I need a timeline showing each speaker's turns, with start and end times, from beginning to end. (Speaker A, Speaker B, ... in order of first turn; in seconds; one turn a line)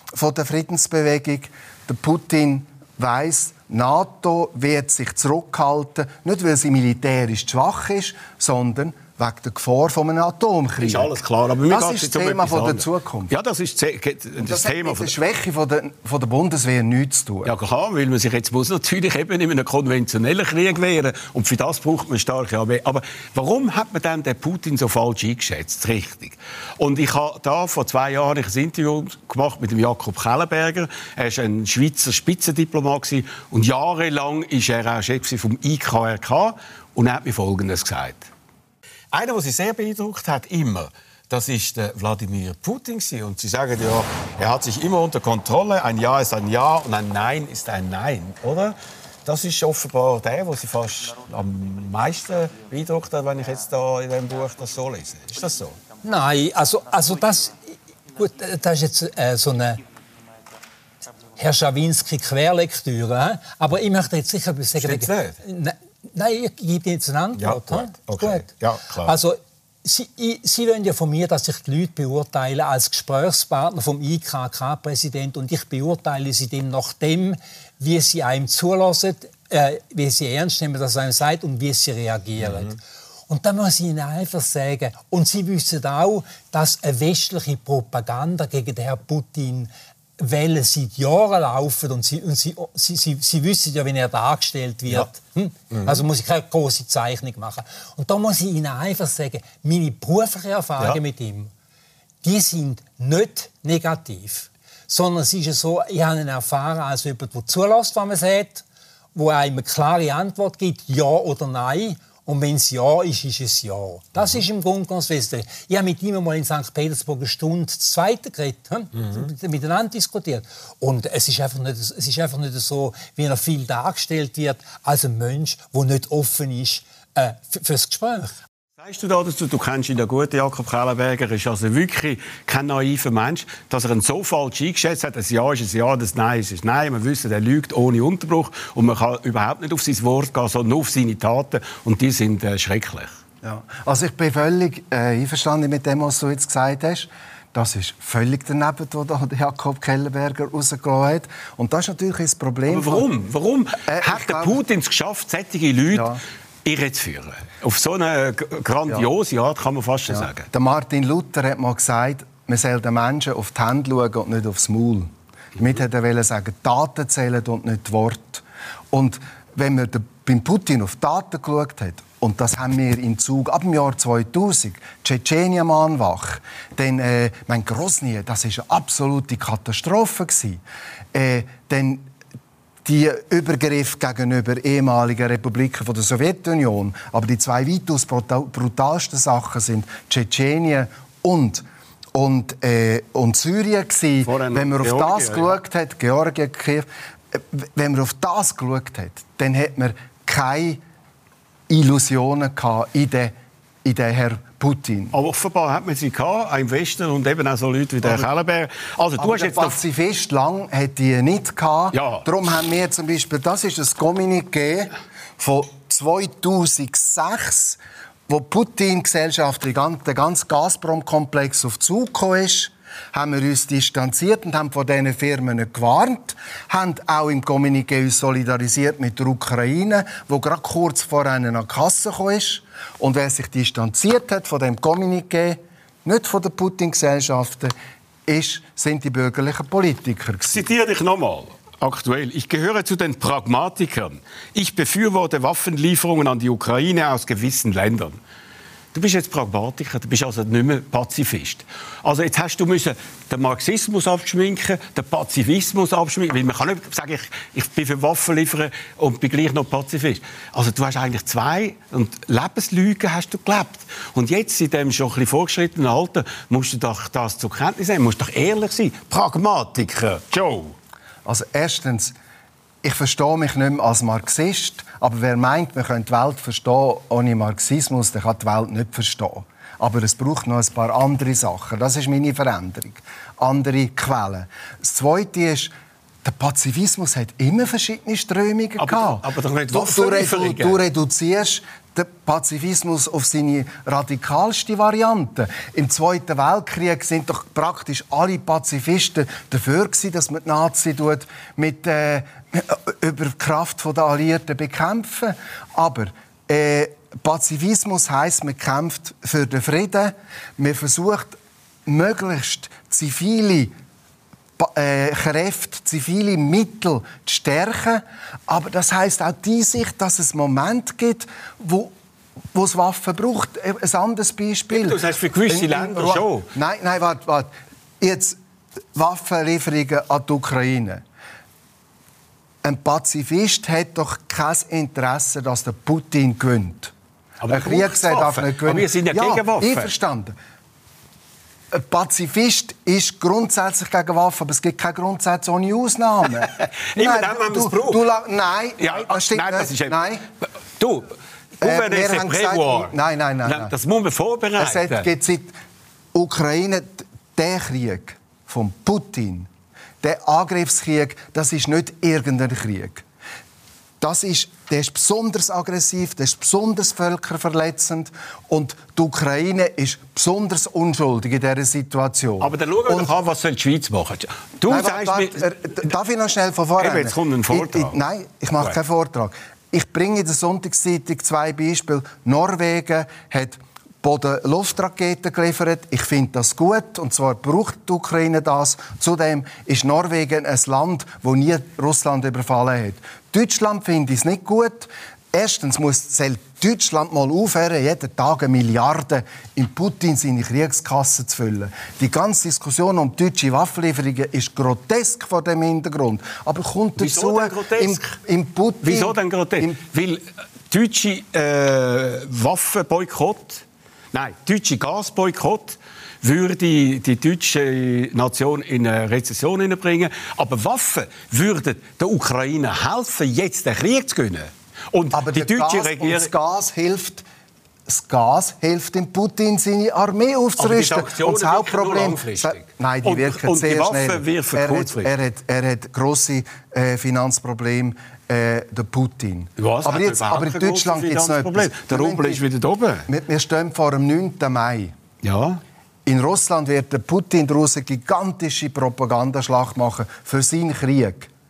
Speaker A: 0.1-11.2
Speaker B: 10.8-15.1
Speaker A: 11.7-13.3
Speaker A: 14.4-17.5
Speaker B: 17.4-38.3
Speaker B: 39.1-55.8
Speaker C: 56.0-57.5
Speaker C: 58.1-59.8
Speaker C: 61.4-101.5
Speaker B: 64.8-65.3
Speaker B: 67.4-69.1
Speaker C: 102.2-128.3
Speaker B: 128.8-143.2
Speaker A: 143.4-153.1
Speaker B: 152.7-160.5
Speaker A: 153.8-154.6
Speaker A: 155.9-156.2
Speaker A: 160.1-180.6
Speaker A: 181.1-182.1
Speaker A: 182.8-191.6
Speaker A: 192.1-200.8
Speaker B: 194.2-195.6
Speaker A: 201.7-205.2
Speaker B: 205.1-209.8
Speaker A: 208.0-208.3
Speaker A: 209.2-237.7
Speaker B: 211.9-212.2
Speaker A: 238.3-240.7
Speaker B: 240.4-248.2
Speaker B: 248.9-270.7
Speaker A: 271.2-272.1
Speaker A: 272.8-285.7
Speaker A: 286.2-313.7
Speaker B: 288.8-290.8
Speaker A: 314.6-321.9
Speaker A: 322.5-328.4
Speaker B: 324.7-326.5
Speaker A: 328.9-331.0
Speaker A: 332.6-336.9
Speaker B: 337.4-339.9
Speaker A: 337.5-340.3
Speaker A: 341.7-350.2
Speaker B: 346.5-348.0
Speaker B: 348.8-349.9
Speaker B: 350.8-352.9
Speaker A: 351.6-353.7
Speaker B: 353.4-355.1
Speaker A: 354.6-355.5
Speaker A: 356.1-359.5
Speaker A: 360.0-363.0
Speaker A: 364.0-373.1
Speaker B: 372.4-375.5
Speaker A: 374.6-409.8
Speaker B: 376.8-377.9
Speaker B: 407.0-408.0
Speaker B: 408.8-426.3
Speaker A: 425.1-427.2
Speaker A: 427.9-442.4
Speaker B: 430.6-435.1
Speaker B: 439.6-443.1
Speaker A: 443.1-444.9
Speaker B: 445.2-445.6
Speaker A: 446.1-451.3